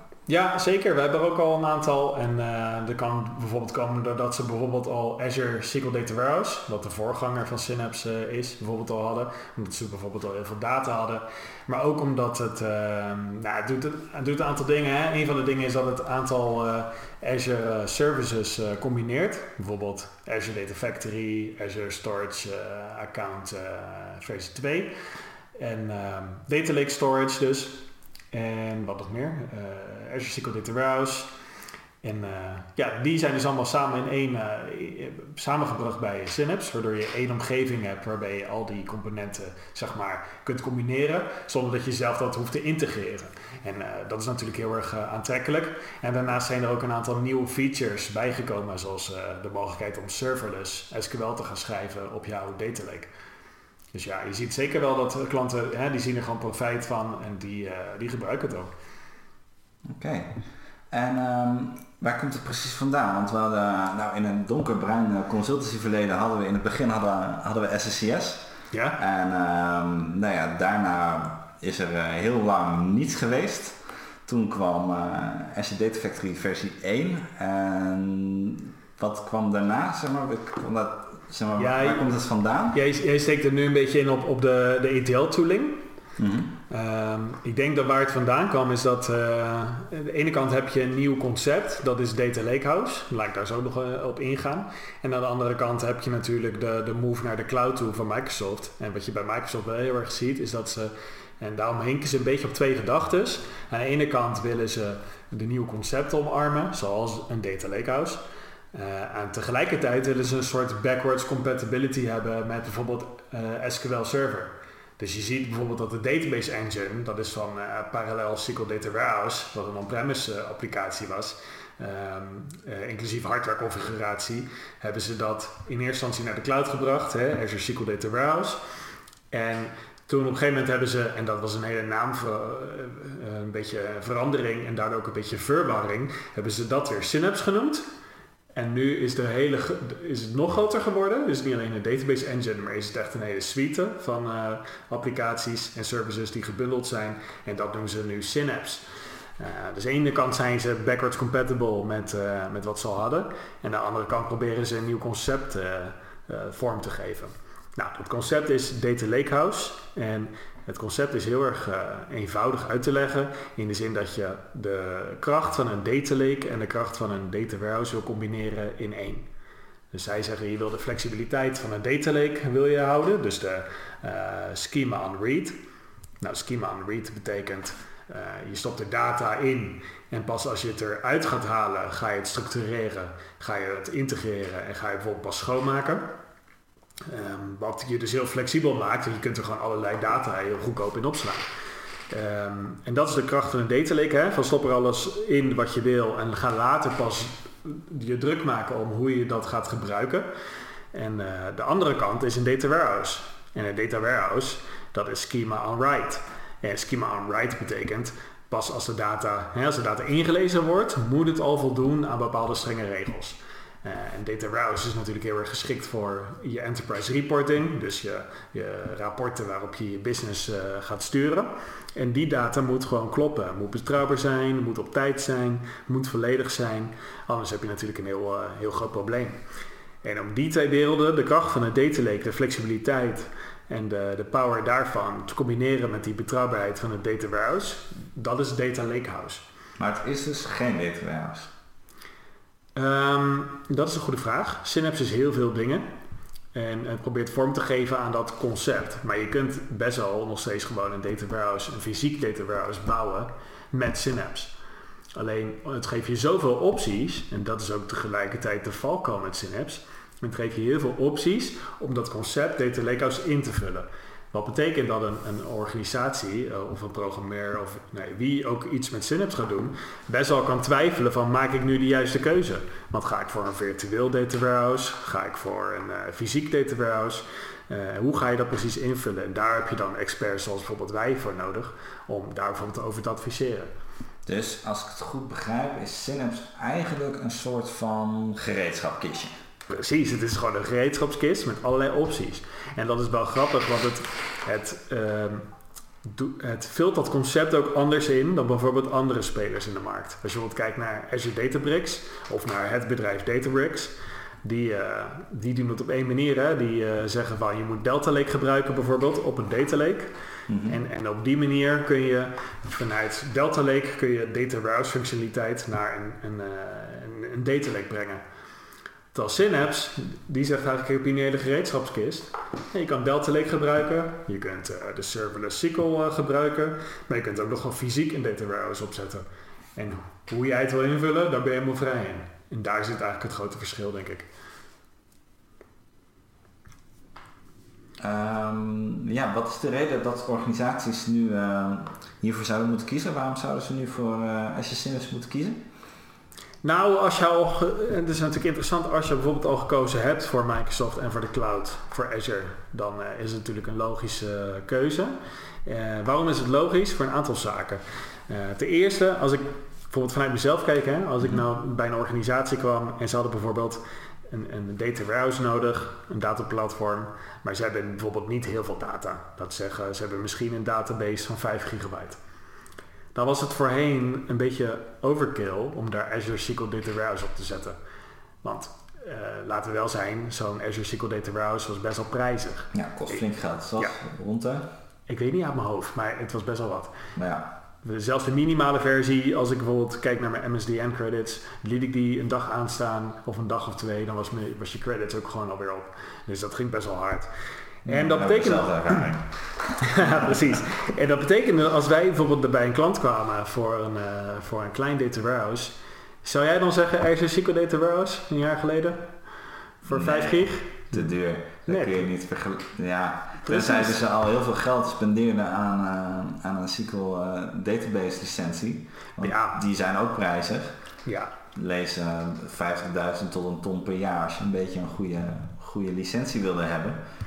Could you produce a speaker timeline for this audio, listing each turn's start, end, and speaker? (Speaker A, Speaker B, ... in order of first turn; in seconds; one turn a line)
Speaker A: 0.3-24.9
Speaker A: 25.6-31.3
Speaker A: 32.0-53.1
Speaker A: 53.9-58.7
Speaker B: 59.9-60.4
Speaker B: 60.9-82.8
Speaker A: 68.7-69.0
Speaker A: 81.6-82.1
Speaker A: 82.7-85.8
Speaker B: 86.2-86.5
Speaker A: 86.7-108.2
Speaker A: 108.7-128.6
Speaker A: 129.3-137.8
Speaker A: 138.5-148.8
Speaker A: 149.4-169.2
Speaker A: 169.9-175.6
Speaker A: 176.2-186.1
Speaker A: 187.1-191.5
Speaker A: 192.1-200.3
Speaker A: 200.9-229.4
Speaker A: 230.0-239.4
Speaker B: 239.8-241.5
Speaker A: 242.8-245.9
Speaker A: 246.5-254.5
Speaker A: 255.1-283.7
Speaker B: 284.2-289.3
Speaker A: 289.7-295.4
Speaker A: 296.0-310.1
Speaker B: 310.5-310.8
Speaker A: 310.6-318.2
Speaker A: 319.1-329.2
Speaker A: 329.8-334.3
Speaker B: 338.0-345.6
Speaker A: 346.6-372.2
Speaker A: 373.1-377.8
Speaker A: 378.4-383.2
Speaker B: 382.7-384.6
Speaker A: 385.1-386.9
Speaker B: 387.1-387.5
Speaker A: 387.8-397.3
Speaker A: 397.8-399.1
Speaker B: 397.9-400.3
Speaker A: 399.8-409.1
Speaker A: 409.8-411.0
Speaker B: 409.9-420.7
Speaker A: 411.7-412.0
Speaker A: 413.4-413.9
Speaker A: 419.2-419.6
Speaker A: 421.1-421.3
Speaker B: 421.5-427.0